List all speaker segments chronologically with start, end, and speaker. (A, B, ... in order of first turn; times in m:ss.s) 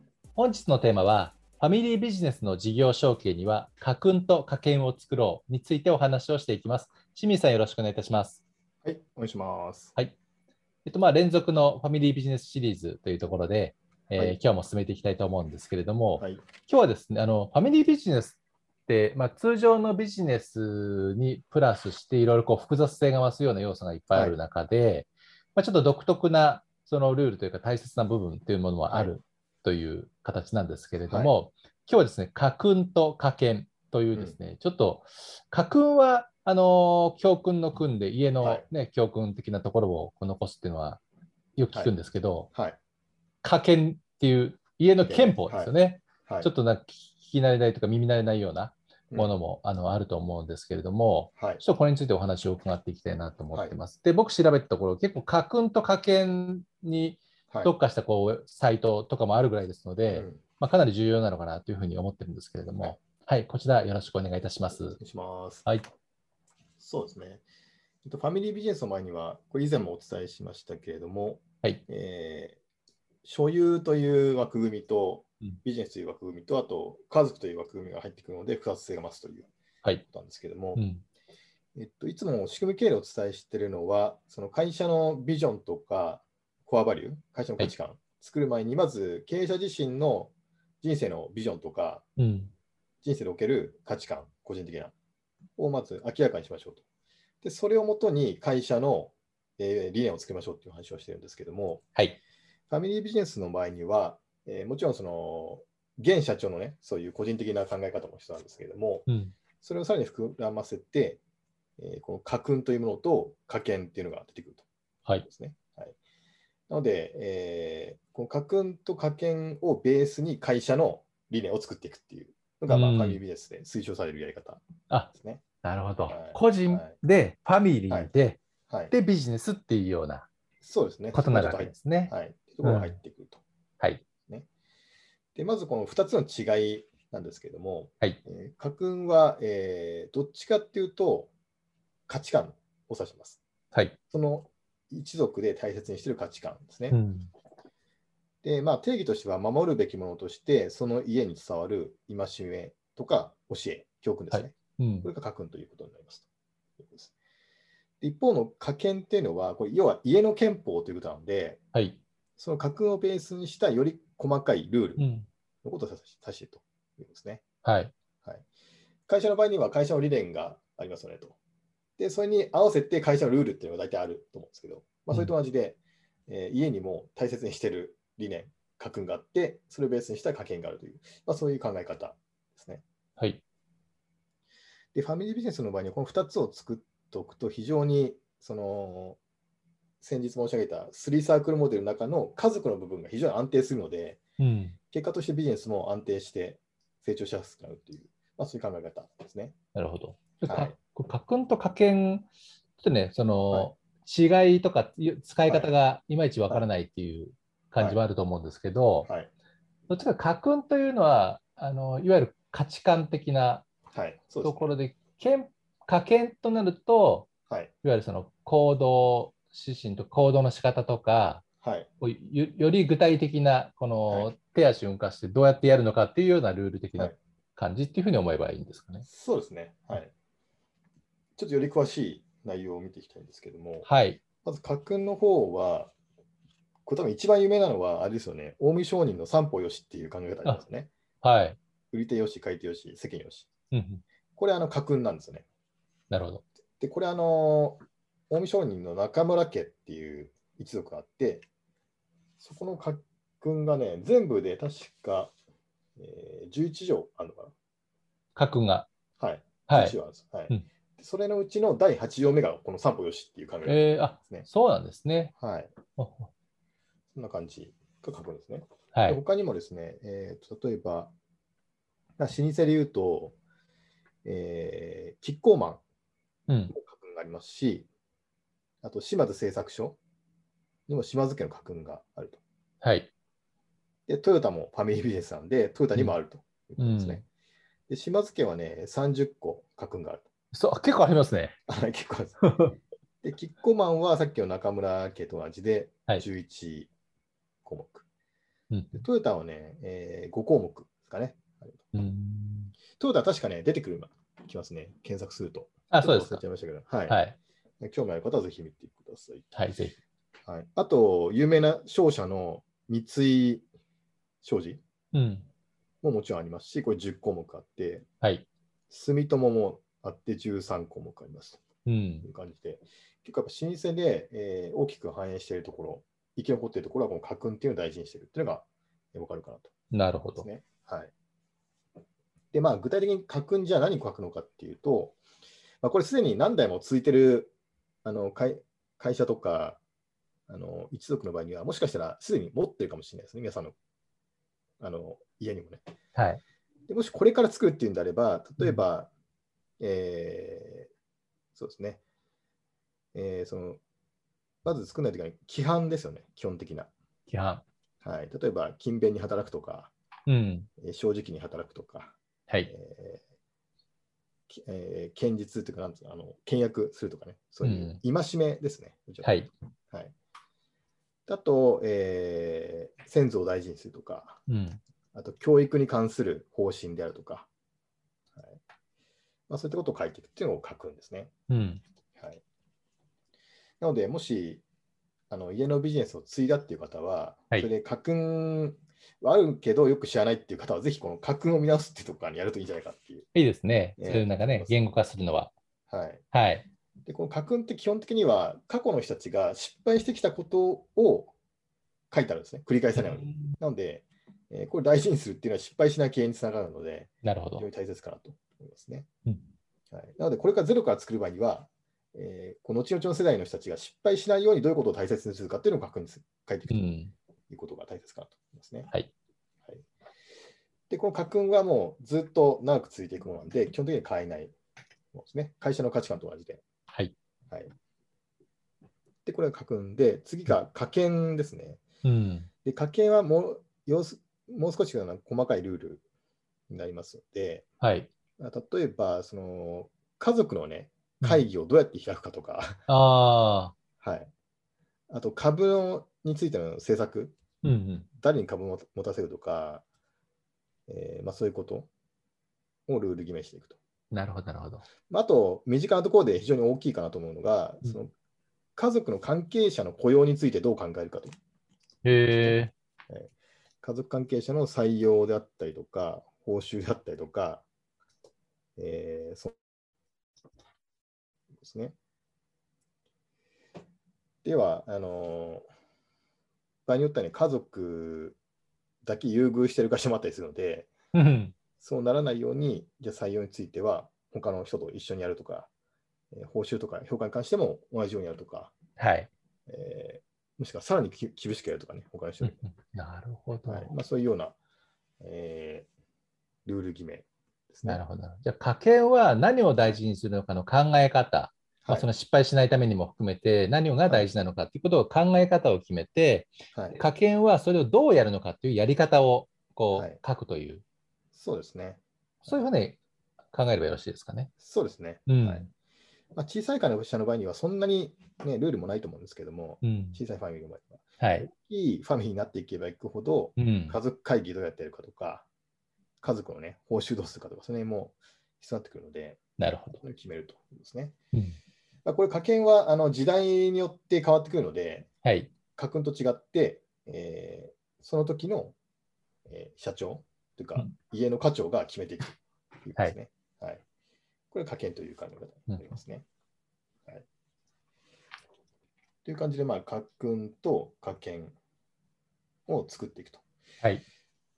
0:00.4-0:08.4 A
0:08.8-0:10.0 B
0:10.8-0:41.0 A
0:16.2-0:16.4 B
0:24.1-0:24.4 B
0:28.9-0:29.1 B
0:38.4-0:38.7 B
0:41.6-0:42.5 A
0:43.4-1:05.0 A
0:45.0-0:45.7 B
0:46.2-0:46.5 B
0:51.4-0:51.6 B
1:00.1-1:00.4 B
1:05.0-1:05.6 B
1:06.8-1:07.4 B
1:08.0-1:12.6 B
1:13.2-1:19.5 B
1:20.1-1:20.8 B
1:20.8-1:21.0 A
1:21.8-1:32.0 B
1:32.2-1:32.5 A
1:33.0-1:34.9 B
1:35.6-1:36.8 B
1:37.4-1:41.8 B
1:42.7-1:49.1 B
1:49.1-1:49.3 A
1:49.6-1:51.2 B
1:51.8-1:54.6 B
1:55.2-1:56.0 B
1:56.7-2:05.4 B
2:02.7-2:03.2 A
2:05.6-2:10.3 A
2:06.1-2:06.9 B
2:08.7-2:08.9 B
2:10.6-2:13.4 B
2:11.1-2:13.0 A
2:15.3-2:21.3 B
2:22.1-2:23.4 B
2:24.1-2:27.0 B
2:26.9-2:27.3 A
2:28.4-2:36.2 B
2:34.3-2:35.1 A
2:36.8-2:37.1 B
2:38.0-2:41.6 B
2:41.7-2:42.0 A
2:42.4-2:45.0 B
2:45.0-2:45.3 A
2:45.6-2:47.4 B
2:47.6-2:47.9 A
2:49.1-2:51.4 B
2:52.0-3:02.8 B
3:04.9-3:09.2 B
3:10.0-3:14.2 B
3:14.4-3:14.8 A
3:14.9-3:19.5 B
3:19.7-3:22.3 A
3:20.4-3:20.8 B
3:22.8-3:29.1 A
3:25.4-3:25.7 B
3:29.0-3:29.3 B
3:29.9-3:33.6 A
3:33.9-3:34.7 B
3:34.4-3:37.3 A
3:37.8-3:41.4 A
3:41.6-3:41.9 B
3:42.0-3:49.0 A
3:49.0-3:50.1 B
3:51.4-3:53.9 B
3:53.8-3:54.2 A
3:54.4-3:55.9 B
3:56.8-4:00.9 B
4:01.2-4:01.6 A
4:01.9-4:03.5 B
4:03.7-4:04.0 A
4:04.4-4:05.4 B
4:06.1-4:06.4 A
4:06.8-4:11.4 B
4:12.4-4:15.3 B
4:16.0-4:17.5 B
4:18.4-4:18.9 A
4:19.2-4:24.5 B
4:19.7-4:20.0 A
4:23.6-4:25.3 A
4:25.4-4:25.8 B
4:26.0-4:26.3 A
4:27.1-4:31.1 B
4:28.9-4:29.2 A
4:32.2-4:33.4 B
4:34.2-4:35.8 B
4:36.5-4:36.7 A
4:36.7-4:37.9 B
4:38.8-4:40.0 B
4:40.9-4:42.4 B
4:42.8-4:43.1 A
4:44.1-4:47.2 B
4:46.8-4:47.2 A
4:47.9-4:50.2 B
4:50.5-4:51.5 A
4:51.7-4:52.4 B
4:52.4-4:52.8 A
4:53.2-4:56.9 B
4:57.6-4:58.0 B
4:58.7-4:59.0 A
4:58.9-5:01.8 B
5:01.9-5:02.7 A
5:02.9-5:07.2 B
5:05.9-5:06.4 A
5:07.1-5:07.4 A
5:07.8-5:09.4 B
5:09.5-5:10.0 A
5:10.4-5:13.6 B
5:14.4-5:14.8 B
5:15.1-5:15.5 A
5:16.0-5:18.0 B
5:18.2-5:18.5 A
5:18.9-5:21.6 B
5:21.8-5:22.3 A
5:22.2-5:29.7 B
5:29.9-5:30.4 A
5:30.4-5:31.1 B
5:32.5-5:35.2 B
5:35.8-5:37.5 B
5:38.0-5:39.8 B
5:40.5-5:43.7 B
5:44.8-5:45.8 B
5:46.2-5:46.4 A
5:46.9-5:49.1 B
5:49.8-5:50.9 B
5:51.5-5:52.0 B
5:53.1-5:53.8 B
5:54.6-5:56.9 B
5:57.3-5:57.6 A
5:58.0-5:59.9 B
6:00.3-6:00.7 A
6:00.8-6:03.2 B
6:04.5-6:09.4 B
6:07.6-6:08.0 A
6:09.2-6:09.5 A
6:11.3-6:14.4 B
6:14.5-6:14.8 A
6:15.1-6:17.5 B
6:19.5-6:21.3 B
6:21.5-6:21.8 A
6:22.1-6:22.4 B
6:23.8-6:24.6 B
6:25.3-6:33.3 B
6:33.3-6:35.5 A
6:34.0-6:34.8 B
6:35.9-6:36.2 B
6:36.3-6:36.6 A
6:37.0-6:41.3 B
6:42.1-6:49.1 B
6:43.0-6:43.5 A
6:47.2-6:47.6 A
6:49.9-6:56.9 B
6:56.7-6:57.1 A
6:57.5-6:58.9 B
7:00.9-7:04.5 B
7:05.1-7:06.6 B
7:09.2-7:11.8 B
7:12.0-7:12.5 A
7:12.6-7:16.0 B
7:16.7-7:17.6 B
7:17.8-7:18.1 A
7:18.4-7:22.8 B
7:22.9-7:23.7 A
7:24.0-7:24.3 B
7:25.1-7:27.4 B
7:27.6-7:28.1 A
7:28.2-7:29.8 B
7:30.9-7:31.9 B
7:32.9-7:33.8 B
7:34.1-7:34.8 A
7:35.1-7:38.1 B
7:38.8-7:41.3 B
7:42.0-7:42.7 A
7:42.4-7:43.3 B
7:43.8-7:47.6 B
7:48.8-7:49.5 B
7:51.6-7:51.9 B
7:54.4-7:55.7 B
7:56.8-7:58.4 B
7:59.0-8:00.9 B
8:01.1-8:01.5 A
8:01.8-8:05.7 B
8:06.3-8:08.7 B
8:09.0-8:09.3 A
8:09.7-8:12.7 B
8:12.4-8:13.9 A
8:13.6-8:14.6 B
8:15.2-8:15.9 B
8:16.6-8:18.0 B
8:17.8-8:30.8 A
8:21.8-8:22.1 B
8:26.7-8:27.0 B
8:29.9-8:30.2 B
8:31.3-8:32.7 B
8:32.4-8:33.0 A
8:33.5-8:34.5 A
8:34.6-8:35.7 B
8:35.3-8:35.7 A
8:36.3-8:45.4 B
8:39.8-8:40.2 A
8:41.2-8:41.5 A
8:43.6-8:44.0 A
8:46.2-8:51.1 B
8:49.6-8:50.0 A
8:52.0-8:55.1 B
8:55.2-8:55.5 A
8:55.7-8:58.7 B
8:59.5-9:03.8 B
9:04.5-9:06.2 B
9:09.2-9:11.6 B
9:12.7-9:13.4 B